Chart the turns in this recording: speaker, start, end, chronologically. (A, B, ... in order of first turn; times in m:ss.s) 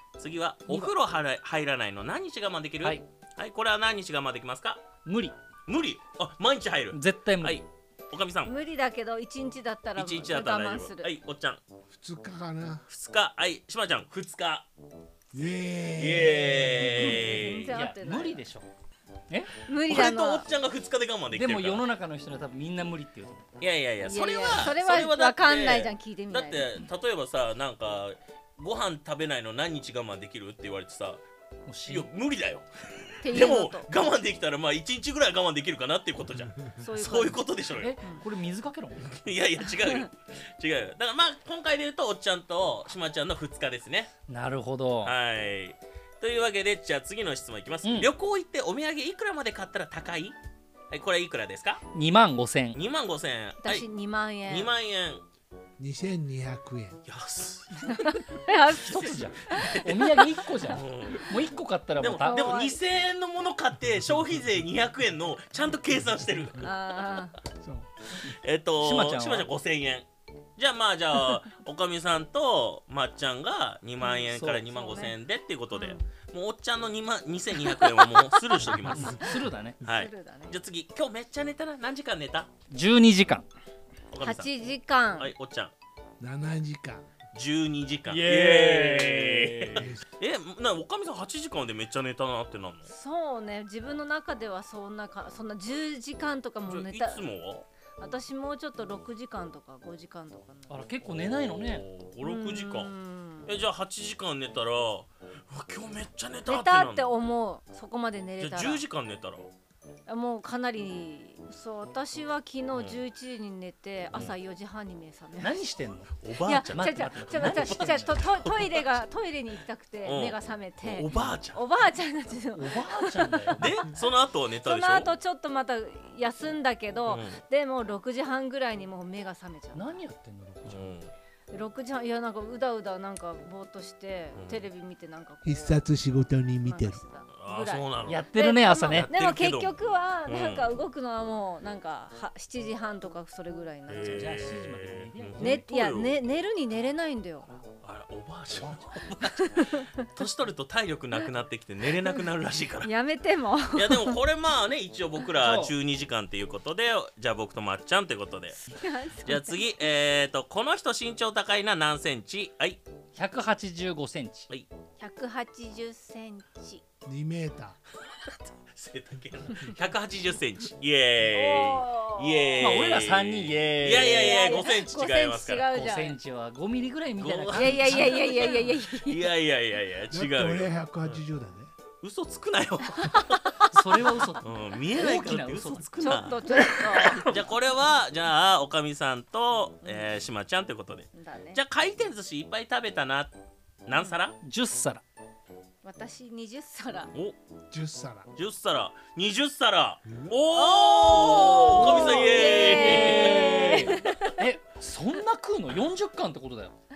0:00.2-0:04.8 A
0:00.7-0:00.9 B
0:05.0-0:05.4 B
0:05.7-0:08.5 A
0:06.9-0:07.6 B
0:08.4-0:11.1 C
0:10.0-0:11.6 A
0:11.9-0:12.9 D
0:12.9-0:14.7 A
0:15.3-0:17.0 D
0:16.0-0:17.7 A
0:16.6-0:18.7 B
0:17.2-0:18.5 C
0:19.3-0:19.6 B
0:19.6-0:20.5 C
0:19.8-0:21.8 A
0:21.3-0:23.6 B
0:23.6-0:31.2 A
0:24.0-0:26.8 C
0:31.7-0:32.1 B
0:31.9-0:38.0 A
0:33.2-0:33.9 C
0:36.8-0:38.2 C
0:37.8-0:39.1 B
0:39.0-0:44.1 A
0:39.8-0:40.0 C
0:44.3-0:45.1 B
0:45.0-0:50.4 A
0:47.8-0:48.1 B
0:50.9-0:51.8 A
0:51.9-0:52.8 B
0:52.7-0:53.9 A
0:53.6-0:54.7 C
0:54.4-0:55.3 A
0:55.8-0:57.0 D
0:57.1-0:58.0 A
0:57.9-1:00.2 C
0:58.8-1:02.6 B
0:59.6-1:01.5 A
1:02.0-1:06.7 A
1:02.2-1:02.8 C
1:06.6-1:07.4 C
1:07.6-1:07.9 D
1:08.2-1:22.5 A
1:08.8-1:09.5 B
1:14.1-1:15.2 C
1:14.2-1:15.0 B
1:15.7-1:16.0 C
1:17.6-1:18.0 C
1:18.8-1:19.8 B
1:19.8-1:20.6 C
1:22.7-1:23.5 B
1:24.1-1:24.5 A
1:24.2-1:25.3 C
1:25.2-1:25.7 A
1:26.2-1:27.1 D
1:27.3-1:32.9 A
1:28.1-1:29.9 B
1:29.8-1:30.0 D
1:32.9-1:37.2 C
1:36.7-1:37.7 A
1:38.0-1:40.8 C
1:40.7-1:41.8 B
1:41.0-1:42.9 A
1:42.2-1:43.6 C
1:43.5-1:47.1 A
1:46.5-1:48.8 C
1:48.4-1:49.5 A
1:50.1-1:55.6 C
1:52.7-1:53.0 A
1:55.4-1:56.2 B
1:56.2-1:58.8 A
1:56.4-2:03.5 C
1:56.7-1:58.2 B
2:00.0-2:01.6 A
2:02.5-2:03.7 B
2:03.6-2:05.1 A
2:04.6-2:10.0 C
2:07.1-2:07.4 A
2:09.7-2:11.0 B
2:10.7-2:11.1 A
2:11.5-2:15.8 C
2:14.4-2:14.7 A
2:15.4-2:17.0 D
2:16.6-2:24.5 C
2:17.3-2:18.2 A
2:18.1-2:19.1 B
2:19.0-2:19.8 A
2:20.3-2:20.7 A
2:23.9-2:26.2 A
2:23.9-2:25.7 B
2:25.4-2:27.6 C
2:27.8-2:32.9 A
2:28.6-2:29.0 B
2:29.5-2:29.9 C
2:32.8-2:34.2 C
2:33.7-2:38.6 A
2:35.4-2:35.7 B
2:38.5-2:39.6 C
2:39.2-2:42.8 A
2:43.2-2:44.5 B
2:45.0-2:46.8 C
2:47.0-2:47.8 D
2:48.3-2:55.7 A
2:51.3-2:52.9 C
2:52.6-2:54.6 B
2:54.1-2:56.2 C
2:55.7-2:58.7 B
2:57.2-3:01.2 A
2:57.5-2:59.3 C
3:00.1-3:01.7 D
3:02.0-3:14.4 A
3:03.7-3:06.2 B
3:06.0-3:07.3 C
3:09.8-3:10.1 C
3:11.1-3:11.6 C
3:14.4-3:15.0 B
3:15.8-3:17.1 C
3:17.7-3:18.3 D
3:18.4-3:24.2 A
3:20.1-3:20.4 D
3:20.5-3:24.4 C
3:21.5-3:26.7 B